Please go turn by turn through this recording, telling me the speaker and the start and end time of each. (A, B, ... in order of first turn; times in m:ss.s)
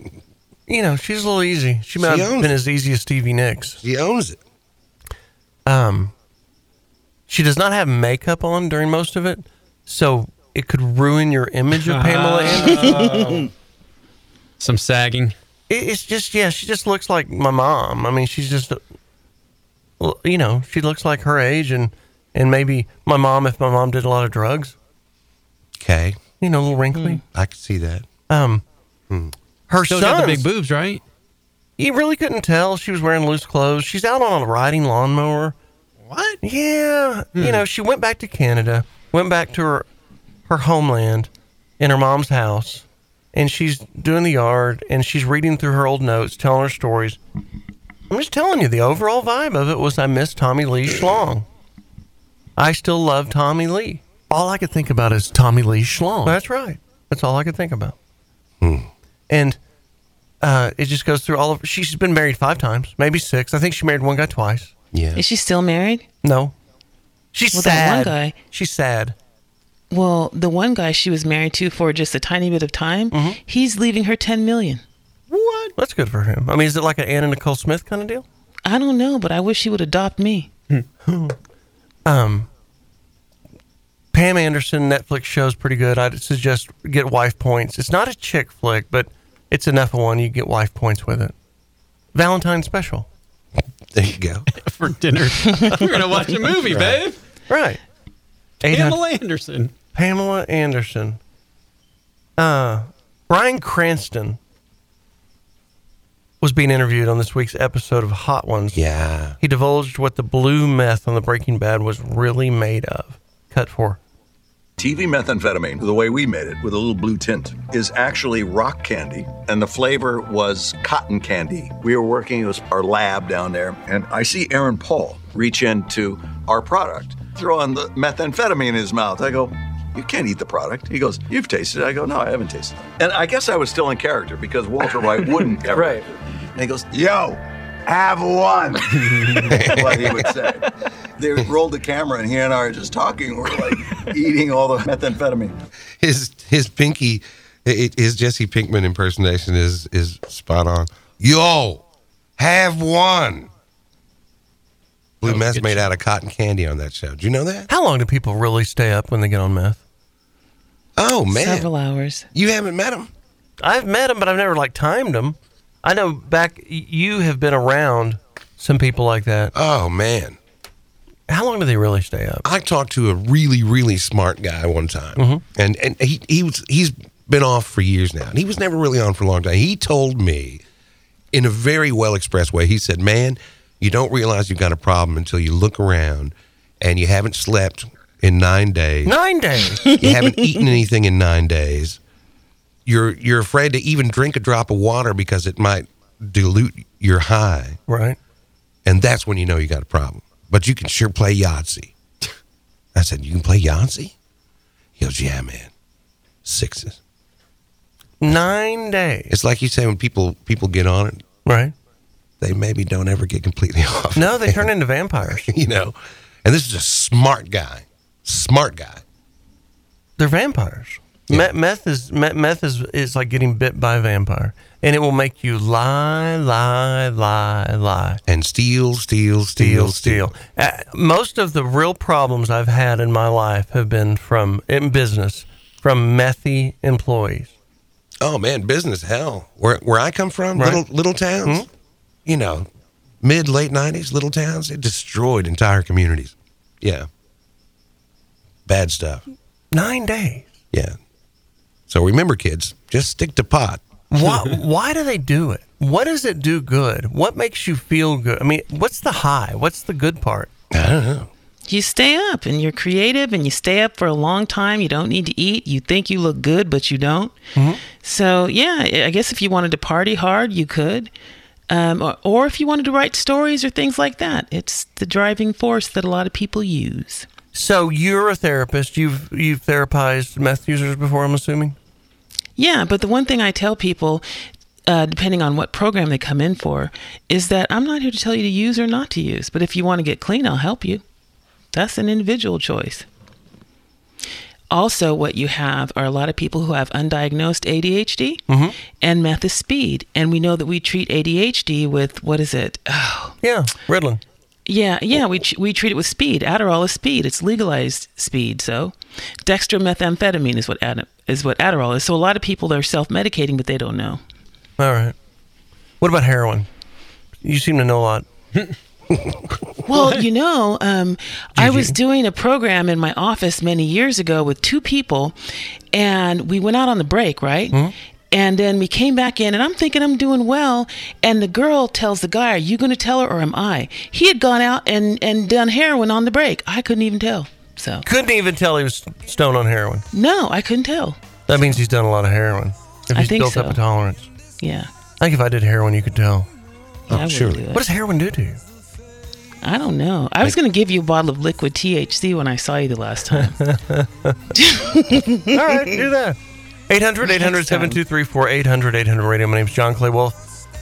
0:00.7-0:03.8 A
0:02.0-0:02.5 B
0:03.8-0:04.4 B
0:05.6-0:06.1 A
0:07.3-0:13.1 A
0:11.7-0:13.4 C
0:14.6-0:15.3 C
0:15.7-0:18.8 A
0:20.0-0:24.7 A
0:25.8-0:26.2 B
0:26.4-0:27.2 A
0:26.9-0:27.2 D
0:27.3-0:28.0 B
0:28.3-0:28.6 A
0:29.7-0:30.4 A
0:29.8-0:31.0 C
0:31.8-0:35.5 A
0:36.0-0:36.4 C
0:36.4-0:39.8 A
0:37.3-0:37.6 C
0:40.5-0:47.2 A
0:48.1-0:51.4 A
0:52.6-0:58.0 A
0:58.6-0:58.9 B
0:59.3-0:59.6 A
1:00.4-1:04.7 A
1:04.9-1:05.2 B
1:05.2-1:06.0 D
1:06.2-1:06.5 A
1:07.3-1:09.1 A
1:07.5-1:08.4 D
1:09.9-1:14.8 D
1:13.1-1:13.4 A
1:15.3-1:18.2 A
1:18.6-1:20.5 D
1:21.1-1:21.3 A
1:22.0-1:22.5 A
1:24.1-1:31.3 A
1:32.1-1:33.1 A
1:33.9-1:34.4 B
1:34.6-1:37.2 C
1:36.7-1:37.0 B
1:37.5-1:37.8 A
1:38.6-1:39.0 A
1:38.7-1:39.7 C
1:39.9-1:41.2 A
1:42.4-1:44.4 A
1:46.4-1:48.8 A
1:48.7-1:49.4 B
1:49.4-1:54.0 A
1:54.8-2:20.6 E
2:19.2-2:19.5 C
2:19.4-2:20.2 B
2:21.2-2:25.5 E
2:26.0-2:31.8 B
2:32.4-2:33.5 B
2:35.2-2:37.7 B
2:35.2-2:35.8 C
2:37.7-2:39.8 A
2:41.0-2:41.7 B
2:41.3-2:42.3 D
2:42.3-2:43.1 B
2:43.6-2:49.5 A
2:49.5-2:50.4 B
2:51.3-2:52.4 A
2:52.4-3:00.6 B
2:55.2-2:55.4 A
3:01.3-3:09.1 B
3:09.0-3:09.9 A
3:09.8-3:12.0 B
3:12.8-3:17.8 B
3:17.9-3:18.2 A
3:18.8-3:21.9 B
3:22.9-3:24.1 B
3:25.0-3:25.7 B
3:26.4-3:27.0 B
3:28.2-3:29.3 A
3:29.3-3:31.2 B
3:31.4-3:31.7 A
3:32.4-3:34.7 B
3:34.2-3:35.5 A
3:35.2-3:39.0 B
3:40.2-3:48.2 A
3:48.3-3:50.2 B
3:49.6-3:57.5 A
3:58.2-4:01.6 B
4:00.6-4:00.8 A
4:02.2-4:02.7 B
4:03.2-4:07.1 B
4:08.6-4:09.2 B
4:09.7-4:10.5 A
4:10.7-4:11.0 B
4:11.9-4:13.8 B
4:14.1-4:20.5 A
4:20.7-4:21.3 B
4:21.7-4:27.4 D
4:27.6-4:27.8 A
4:27.9-4:31.1 D
4:31.7-4:37.2 D
4:37.5-4:41.7 A
4:42.6-4:44.2 D
4:44.8-4:51.0 D
4:51.7-4:53.0 D
4:54.7-4:58.4 D
4:58.5-4:58.8 A
4:59.0-5:03.3 D
5:03.4-5:04.2 A
5:04.7-5:08.9 D
5:09.4-5:14.2 D
5:14.8-5:15.1 A
5:16.0-5:16.7 A
5:17.4-5:18.2 A
5:19.9-5:25.4 D
5:19.9-5:20.2 C
5:21.6-5:22.0 A
5:25.9-5:27.8 D
5:28.3-5:38.0 D
5:38.0-5:40.0 A
5:40.1-5:41.2 D
5:41.5-5:44.3 A
5:43.1-5:43.8 D
5:44.6-5:44.9 D
5:45.2-5:46.5 A
5:47.1-5:47.6 B
5:47.1-5:47.8 D
5:47.7-5:48.6 A
5:49.6-5:53.6 D
5:53.4-5:54.4 A
5:54.6-5:55.9 D
5:55.5-5:56.4 A
5:56.9-6:00.3 A
5:57.2-5:58.0 D